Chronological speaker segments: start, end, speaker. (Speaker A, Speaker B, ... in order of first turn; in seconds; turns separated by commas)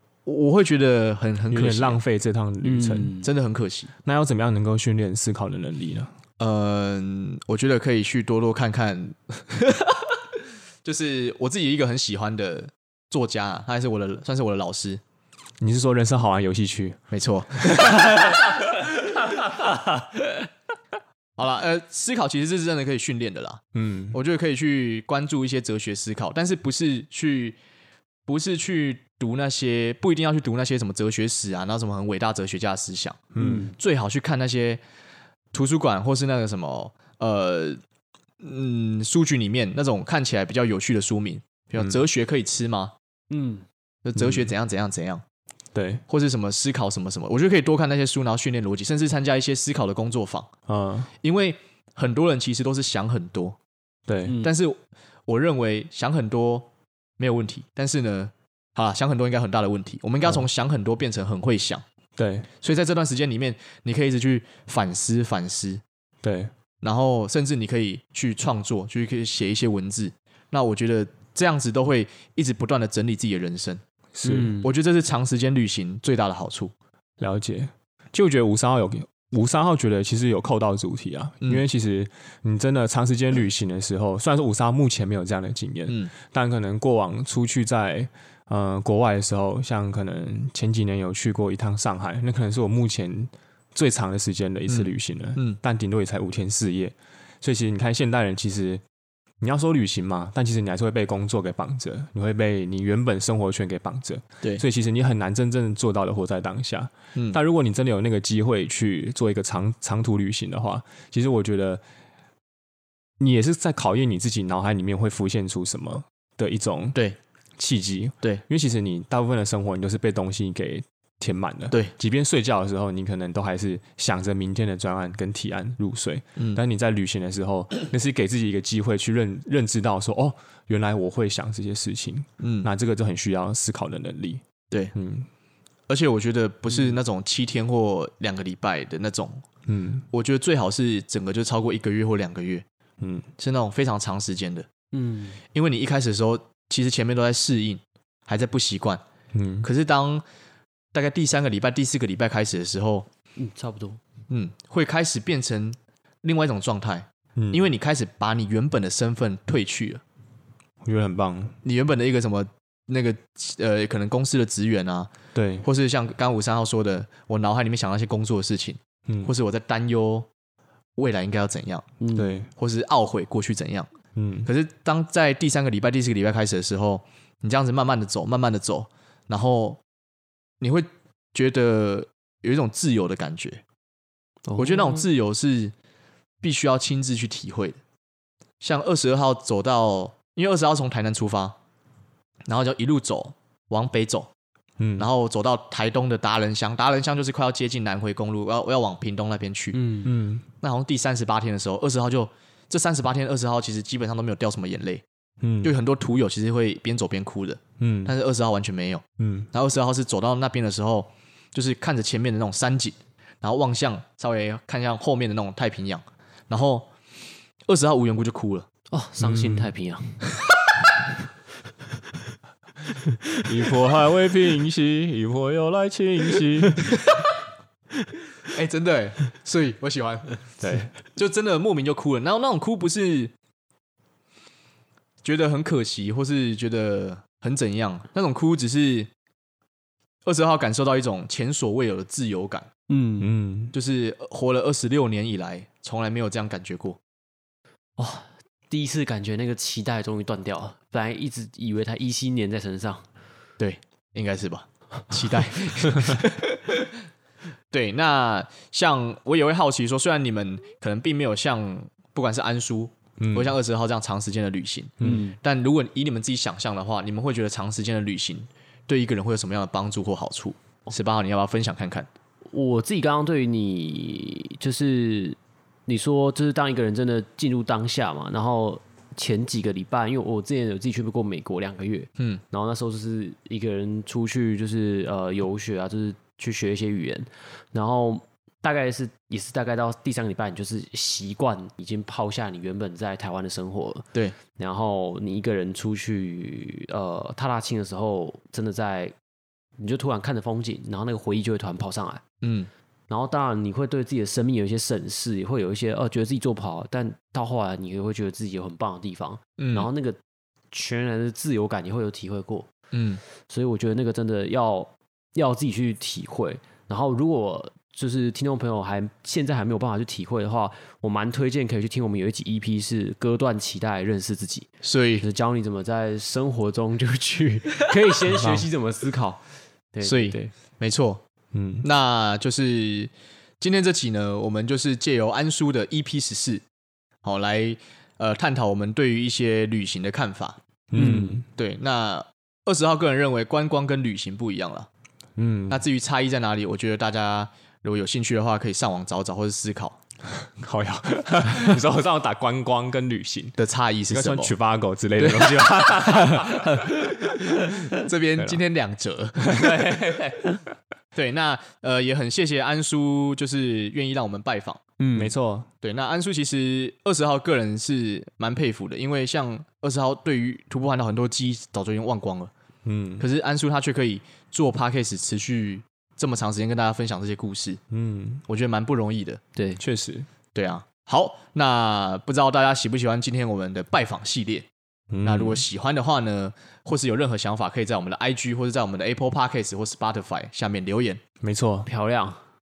Speaker A: 0.3-2.0, Speaker B: 1.5-3.2, Speaker C: 2.6-3.3, Speaker A: 3.2-3.9, Speaker B: 4.0-6.1, Speaker A: 6.4-10.1, Speaker A: 10.8-15.0, Speaker B: 15.6-17.0, Speaker A: 17.1-18.3, Speaker B: 17.5-19.8, Speaker A: 21.4-27.6, Speaker B: 23.8-24.2, Speaker A: 28.3-34.8, Speaker B: 33.4-33.7, Speaker C: 33.4-33.7, Speaker A: 35.5-37.8, Speaker A: 38.4-42.9, Speaker C: 43.3-43.6, Speaker A: 44.0-45.2, Speaker B: 44.2-44.5, Speaker B: 45.7-46.0, Speaker A: 46.1-50.5, Speaker B: 50.7-51.1, Speaker A: 51.2-53.6, Speaker B: 54.1-54.4, Speaker A: 54.4-56.7, Speaker A: 57.2-61.8, Speaker B: 62.2-62.5, Speaker A: 62.6-65.8, Speaker B: 66.2-66.5, Speaker A: 66.8-73.8, Speaker B: 74.2-74.6, Speaker C: 74.2-74.7, Speaker A: 74.6-76.7, Speaker B: 77.2-98.8, Speaker A: 94.7-95.6, Speaker B: 99.4-111.8, Speaker B: 113.2-117.0, Speaker B: 117.6-134.4, Speaker A: 126.4-126.6, Speaker A: 132.4-132.7, Speaker B: 134.9-135.3, Speaker A: 135.9-139.4, Speaker B: 139.7-140.1, Speaker A: 140.1-142.7, Speaker B: 143.0-143.3, Speaker A: 143.4-144.7, Speaker C: 144.9-145.4, Speaker A: 145.5-149.0, Speaker B: 149.3-149.7, Speaker A: 149.6-150.2, Speaker A: 150.9-153.1, Speaker C: 153.4-154.0, Speaker A: 154.3-160.0, Speaker B: 157.4-157.7, Speaker B: 160.8-161.6, Speaker A: 161.6-165.1, Speaker B: 165.3-165.7, Speaker A: 165.6-170.3, Speaker A: 171.0-171.9, Speaker C: 172.0-172.3, Speaker B: 172.2-172.5, Speaker A: 172.6-173.9, Speaker B: 174.2-174.5, Speaker A: 174.4-179.8, Speaker A: 180.6-183.6, Speaker C: 184.5-185.1, Speaker A: 184.6-185.7, Speaker A: 186.4-187.8, Speaker A: 188.6-191.6, Speaker A: 192.5-194.3, Speaker B: 194.8-195.1, Speaker A: 195.0-199.8, Speaker C: 199.7-200.1, Speaker B: 200.0-200.5, Speaker A: 200.6-205.0, Speaker B: 205.4-205.7, Speaker A: 205.6-216.9, Speaker B: 207.8-208.1, Speaker B: 209.2-209.5, Speaker A: 217.7-218.7, Speaker C: 218.9-220.3, Speaker B: 219.2-219.7, Speaker B: 223.4-226.8, Speaker A: 228.5-233.3, Speaker B: 230.6-230.9, Speaker A: 235.2-239.1, Speaker A: 240.2-242.7, Speaker C: 242.9-243.3, Speaker B: 243.2-243.8, Speaker A: 243.7-247.0, Speaker C: 248.0-253.1, Speaker A: 253.6-256.7, Speaker A: 257.7-272.1, Speaker B: 263.2-263.5, Speaker B: 265.0-265.3, Speaker C: 265.0-265.4, Speaker C: 272.5-299.1, Speaker C: 299.8-302.2, Speaker A: 302.4-302.7, Speaker C: 303.1-310.2, Speaker A: 309.6-309.9, Speaker C: 310.7-312.7, Speaker A: 312.9-313.2, Speaker C: 313.5-330.5, Speaker A: 324.8-325.2, Speaker B: 328.3-328.7, Speaker A: 330.0-331.2, Speaker B: 331.5-331.9, Speaker A: 331.8-336.6, Speaker A: 337.2-340.6, Speaker B: 340.9-341.5, Speaker C: 341.0-341.4, Speaker A: 341.5-344.9, Speaker B: 345.4-345.8, Speaker A: 345.7-350.0, Speaker B: 350.4-353.6, Speaker A: 353.6-354.5, Speaker B: 354.1-358.6, Speaker A: 356.4-356.9, Speaker A: 357.7-359.6, Speaker B: 359.4-360.6, Speaker A: 361.1-364.8, Speaker C: 365.0-365.3, Speaker B: 365.1-365.7, Speaker A: 365.8-372.5, Speaker B: 372.9-373.2, Speaker A: 373.2-377.8, Speaker B: 377.9-378.4, Speaker A: 378.5-379.4, Speaker C: 379.6-379.8, Speaker B: 379.8-380.3, Speaker A: 380.5-384.7, Speaker B: 385.1-385.6, Speaker A: 385.2-391.2, Speaker B: 391.4-391.9, Speaker C: 391.9-392.4